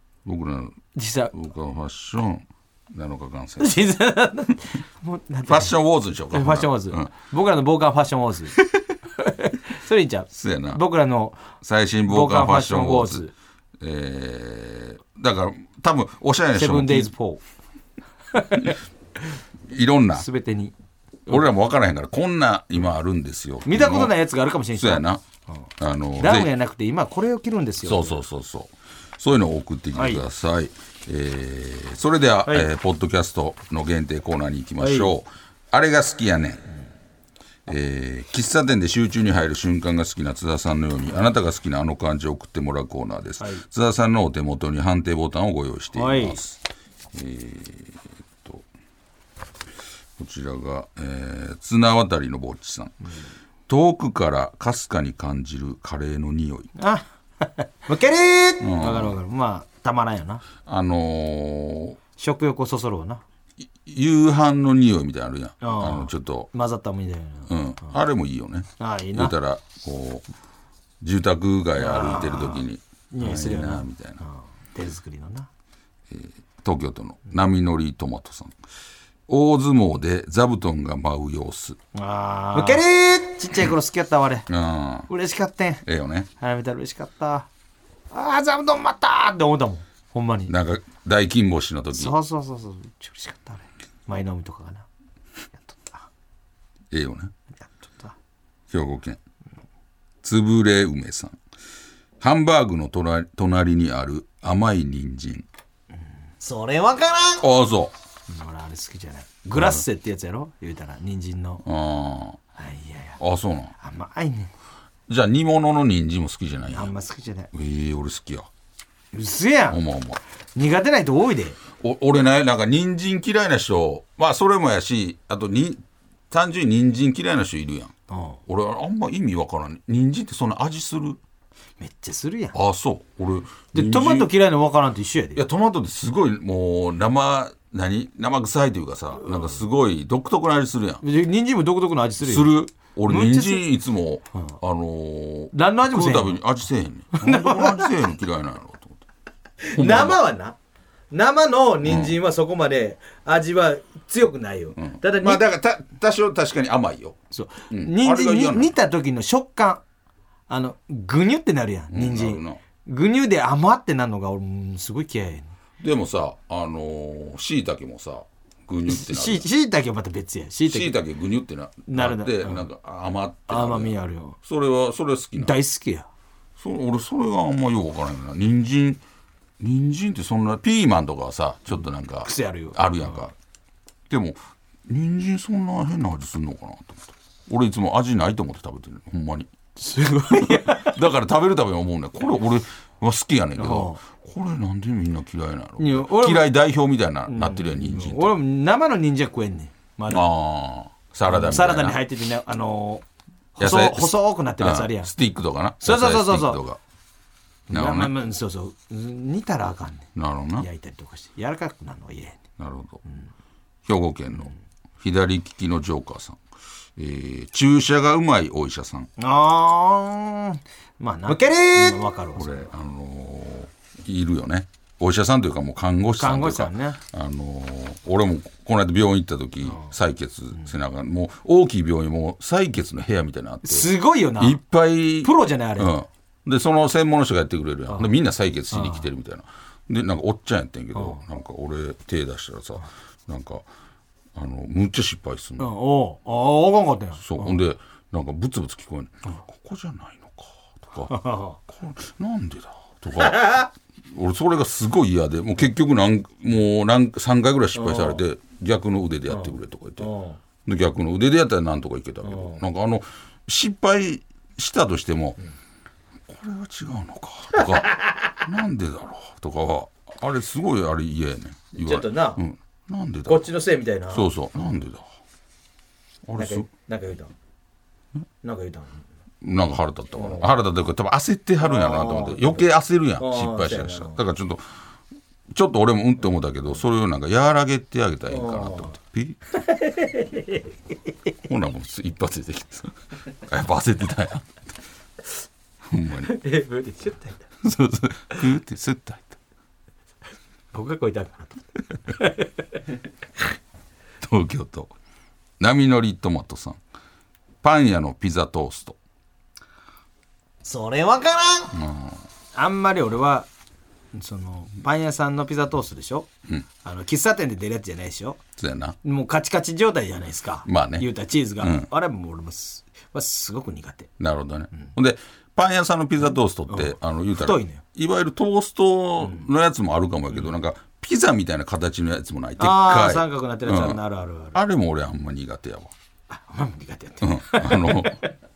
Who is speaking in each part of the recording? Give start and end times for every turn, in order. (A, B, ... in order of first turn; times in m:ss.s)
0:00.2-0:03.8 A
0:01.0-0:01.3 B
0:03.6-0:05.7 B
0:05.5-0:07.1 A
0:06.3-0:08.6 B
0:09.2-0:13.3 B
0:10.3-0:10.8 A
0:11.6-0:13.3 A
0:13.8-0:17.1 A
0:16.6-0:17.4 B
0:18.3-0:18.8 B
0:19.7-0:20.3 A
0:20.2-0:20.7 B
0:21.3-0:24.2 A
0:23.7-0:25.7 B
0:24.7-0:25.2 A
0:25.8-0:26.5 A
0:26.2-0:28.2 B
0:27.8-0:36.6 A
0:29.9-0:30.2 B
0:34.8-0:35.2 B
0:37.7-0:46.6 A
0:43.4-0:43.6 B
0:45.9-0:46.4 B
0:47.1-0:48.6 A
0:50.2-0:53.0 A
0:53.7-0:56.7 A
0:56.8-1:00.4 B
0:58.6-0:59.2 A
1:00.6-1:02.0 A
1:02.2-1:03.2 B
1:03.6-1:06.5 A
1:05.6-1:07.9 B
1:07.5-1:10.3 A
1:08.8-1:09.4 B
1:11.0-1:14.2 A
1:11.8-1:15.5 B
1:16.1-1:18.6 A
1:19.3-1:21.8 A
1:21.9-1:24.5 B
1:22.6-1:22.8 A
1:24.5-1:25.1 A
1:25.1-1:25.8 B
1:25.8-1:26.3 A
1:26.4-1:27.5 B
1:28.1-1:30.5 B
1:30.5-1:32.2 A
1:31.9-1:34.9 B
1:35.5-1:36.1 B
1:36.9-1:37.3 A
1:37.6-1:38.1 B
1:38.7-1:39.2 A
1:40.2-1:41.4 A
1:42.2-1:45.5 A
1:46.4-1:47.4 B
1:47.4-1:47.9 A
1:48.3-1:51.6 B
1:49.5-1:49.8 A
1:51.6-1:52.4 A
1:52.6-1:53.2 B
1:53.2-1:53.7 A
1:53.8-1:54.5 B
1:55.1-1:56.9 A
1:56.7-1:57.5 B
1:57.5-1:58.5 A
1:59.1-1:59.8 B
1:59.7-2:00.2 A
2:00.6-2:01.6 B
2:01.8-2:07.9 A
2:08.1-2:08.4 B
2:08.5-2:11.2 A
2:11.8-2:12.6 B
2:12.5-2:14.3 A
2:13.7-2:15.4 B
2:15.4-2:21.0 A
2:21.0-2:23.6 B
2:22.2-2:29.0 A
2:25.5-2:26.4 B
2:27.1-2:27.9 B
2:29.6-2:30.6 B
2:29.7-2:30.2 A
2:31.1-2:35.4 B
2:31.8-2:32.2 A
2:34.8-2:37.2 A
2:37.3-2:39.8 B
2:37.7-2:38.8 A
2:40.5-2:45.5 B
2:41.9-2:42.6 A
2:45.8-2:49.5 A
2:48.9-2:51.0 B
2:50.7-2:55.6 A
2:51.9-2:52.7 B
2:53.5-2:54.4 B
2:55.4-2:56.1 B
2:56.6-2:59.0 A
2:59.6-3:03.3 A
3:02.2-3:03.3 B
3:04.1-3:09.5 A
3:09.8-3:11.0 B
3:10.3-3:18.3 A
3:13.6-3:14.0 B
3:15.8-3:16.5 B
3:17.3-3:20.3 B
3:20.1-3:22.0 A
3:21.3-3:23.0 B
3:23.6-3:25.1 B
3:23.6-3:26.8 A
3:25.8-3:26.6 B
3:27.7-3:30.1 B
3:27.7-3:28.1 A
3:30.2-3:30.7 A
3:30.6-3:32.4 B
3:32.6-3:33.0 A
3:33.9-3:36.4 A
3:37.0-3:39.1 A
3:39.2-3:42.7 B
3:41.8-4:03.6 A
3:46.2-3:47.0 B
3:53.6-3:54.6 B
3:55.2-3:55.9 B
3:58.7-3:59.0 B
4:04.4-4:05.7 A
4:05.6-4:07.6 B
4:07.2-4:20.1 A
4:11.1-4:11.6 B
4:13.2-4:13.6 B
4:17.7-4:18.2 B
4:19.3-4:20.4 B
4:20.6-4:25.4 A
4:22.2-4:22.6 B
4:26.3-4:33.5 A
4:31.8-4:32.4 B
4:33.3-4:34.3 B
4:34.1-4:35.1 A
4:36.3-4:36.7 A
4:36.4-4:37.3 B
4:38.4-4:39.0 B
4:39.4-4:44.6 A
4:40.2-4:40.5 B
4:41.6-4:42.6 B
4:43.2-4:44.2 B
4:45.5-4:49.4 A
4:48.3-4:49.0 B
4:49.6-4:50.6 B
4:51.5-4:54.7 A
4:55.9-4:56.3 A
4:56.2-4:57.5 B
4:57.6-4:59.4 A
5:00.7-5:02.5 B
5:04.2-5:04.9 A
5:05.6-5:06.8 A
5:07.6-5:09.0 A
5:10.6-5:11.8 B
5:11.7-5:12.2 A
5:12.6-5:13.5 B
5:14.1-5:16.3 B
5:16.8-5:18.4 B
5:18.6-5:19.0 A
5:19.0-5:24.1 B
5:20.7-5:21.9 A
5:24.2-5:34.0 A
5:26.7-5:27.8 B
5:32.6-5:34.6 B
5:34.5-5:35.9 A
5:36.3-5:38.3 B
5:37.2-5:38.2 A